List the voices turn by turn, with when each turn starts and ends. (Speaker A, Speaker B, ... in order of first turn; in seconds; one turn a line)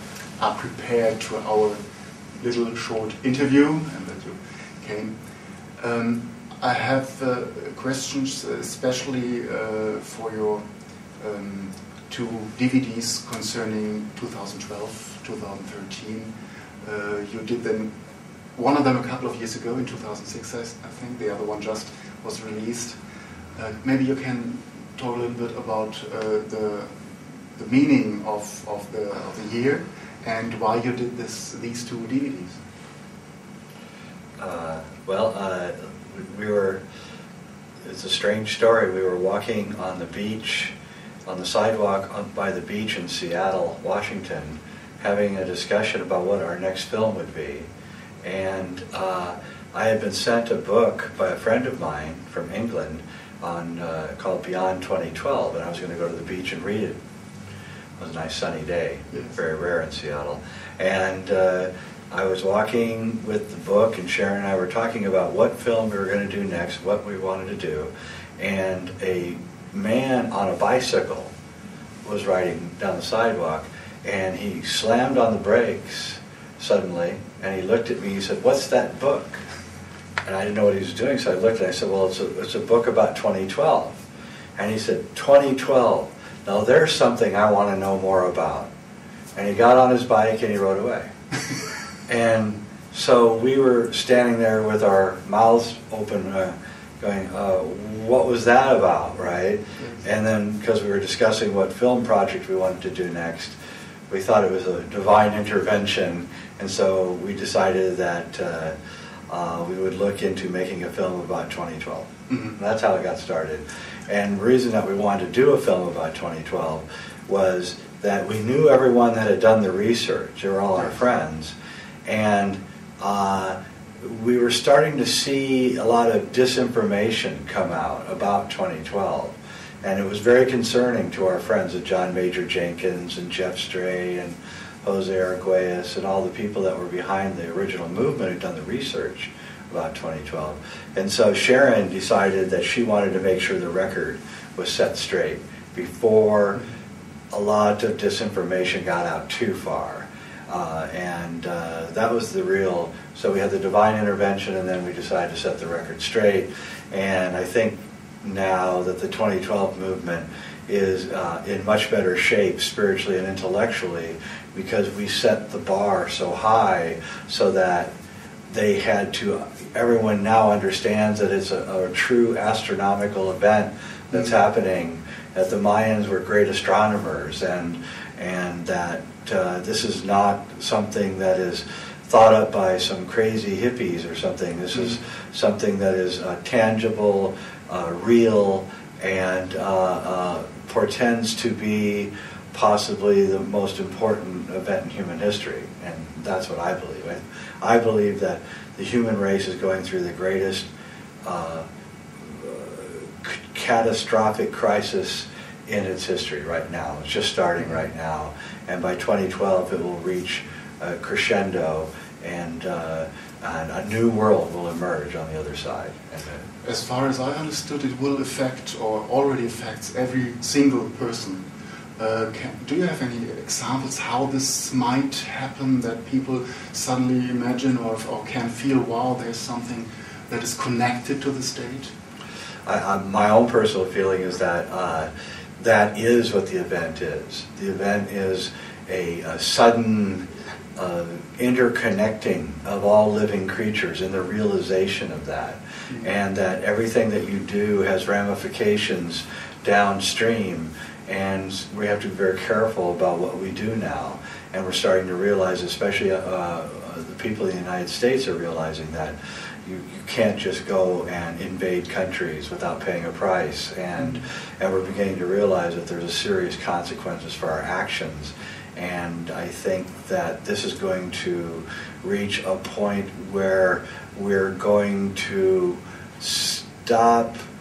Speaker A: 0.4-17.9
Speaker A: 18.5-23.0
Speaker A: 23.5-32.6
Speaker B: 34.4-36.8
Speaker B: 37.8-40.7
Speaker B: 41.2-47.7
Speaker B: 48.2-57.0
Speaker B: 58.0-71.3
Speaker B: 72.0-79.4
Speaker B: 80.2-84.0
Speaker B: 84.6-88.7
Speaker B: 89.3-91.1
Speaker B: 92.1-103.5
Speaker A: 99.8-100.0
Speaker B: 104.1-108.7
Speaker B: 109.3-121.5
Speaker A: 112.3-112.6
Speaker B: 122.0-146.6
Speaker B: 147.3-167.9
Speaker B: 168.5-200.7
Speaker A: 174.1-174.4
Speaker A: 184.7-185.0
Speaker B: 201.2-201.6
Speaker B: 202.2-216.4
Speaker A: 207.6-207.9
Speaker A: 216.6-221.4
Speaker A: 222.0-231.9
Speaker B: 232.7-240.2
Speaker B: 240.8-277.4
Speaker A: 264.0-264.2